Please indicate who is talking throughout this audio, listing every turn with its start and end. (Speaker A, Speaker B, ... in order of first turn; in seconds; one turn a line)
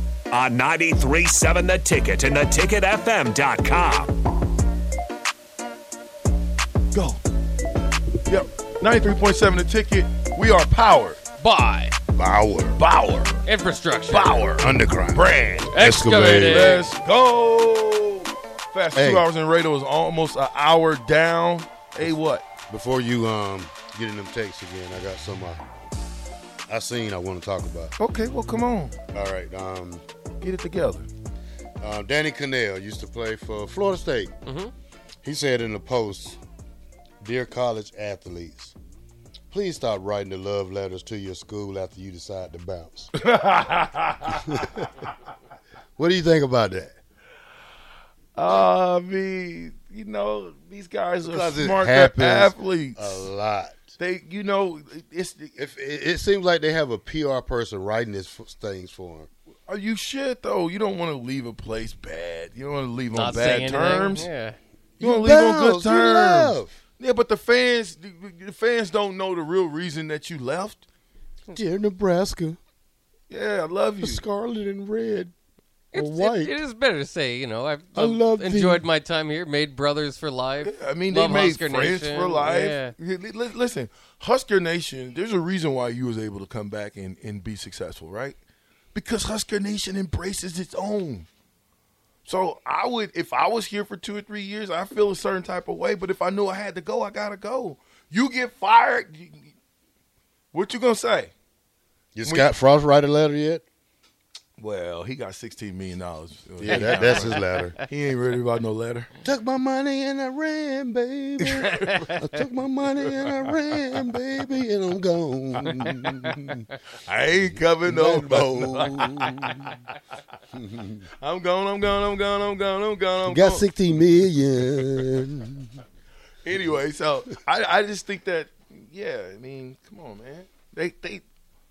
Speaker A: 0.3-4.2
Speaker B: 6.9-7.2
Speaker B: 8.3-11.2
Speaker C: 11.4-11.9
Speaker D: 12.1-12.8
Speaker B: 12.8-13.4
Speaker C: 13.4-14.5
Speaker B: 14.1-22.4
Speaker D: 14.6-16.8
Speaker C: 15.7-16.9
Speaker D: 18.9-19.2
Speaker D: 22.7-25.6
Speaker D: 26.7-27.9
Speaker B: 28.0-29.0
Speaker D: 29.1-30.0
Speaker B: 30.4-31.1
Speaker D: 31.8-34.3
Speaker C: 34.4-34.7
Speaker D: 35.2-36.4
Speaker D: 37.2-38.7
Speaker D: 39.5-43.1
Speaker B: 43.2-44.9
Speaker D: 44.3-44.9
Speaker D: 46.0-47.0
Speaker B: 48.3-53.3
Speaker D: 51.2-54.0
Speaker B: 54.0-55.5
Speaker D: 55.5-59.3
Speaker B: 59.7-64.3
Speaker C: 63.1-64.6
Speaker D: 65.0-66.8
Speaker B: 65.0-70.8
Speaker D: 71.5-72.6
Speaker B: 73.3-74.2
Speaker D: 74.0-75.3
Speaker C: 75.9-82.9
Speaker D: 75.9-76.6
Speaker D: 77.9-78.8
Speaker B: 80.6-88.4
Speaker B: 88.9-91.3
Speaker B: 92.2-99.5
Speaker B: 100.5-101.3
Speaker D: 102.1-103.6
Speaker B: 102.2-102.5
Speaker B: 104.6-109.1
Speaker D: 106.6-107.8
Speaker D: 109.2-116.7
Speaker B: 111.4-112.4
Speaker B: 113.0-113.5
Speaker B: 115.7-119.9
Speaker D: 117.8-119.7
Speaker D: 120.5-121.0
Speaker B: 121.2-123.7
Speaker D: 123.2-125.8
Speaker B: 126.4-131.2